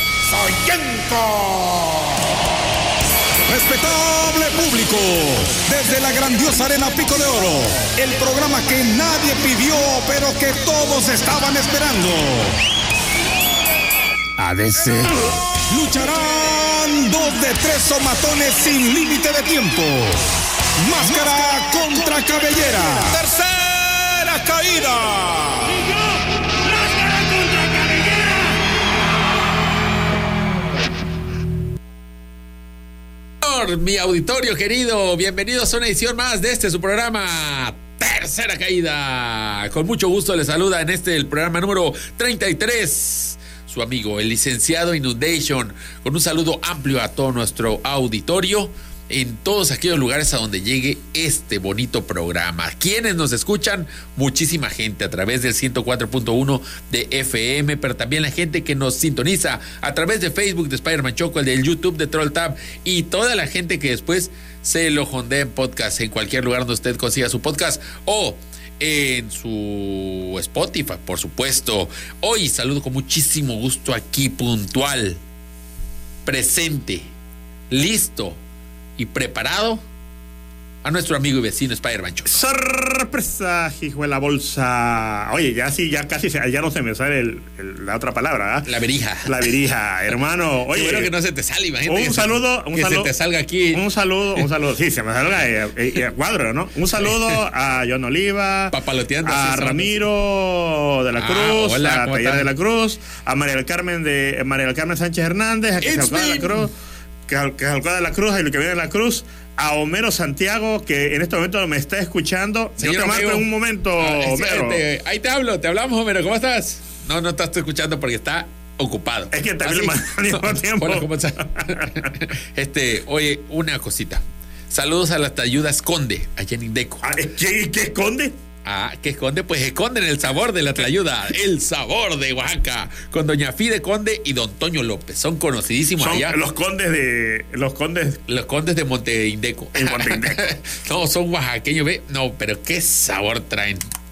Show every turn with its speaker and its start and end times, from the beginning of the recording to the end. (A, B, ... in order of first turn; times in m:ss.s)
0:00.3-0:02.2 A
0:03.5-0:12.6 A
0:14.4-0:20.2 A
0:20.8-0:25.9 A
0:33.4-1:15.2 B
1:16.3-1:17.1 B
1:17.7-1:18.4 B
1:19.0-1:19.8 B
1:20.8-1:22.4 B
1:22.3-1:28.7 C
1:28.6-1:29.3 B
1:29.3-1:31.1 C
1:30.7-1:33.8 B
1:31.9-1:33.1 C
1:33.7-1:46.7 C
1:38.7-1:40.0 B
1:41.2-1:42.5 B
1:45.8-1:46.7 B
1:47.3-1:54.8 C
1:52.8-2:07.1 B
1:59.3-2:02.1 C
2:07.0-2:08.4 C
2:08.6-2:16.4 B
2:16.0-2:18.2 C
2:18.3-2:23.8 B
2:19.8-2:20.5 C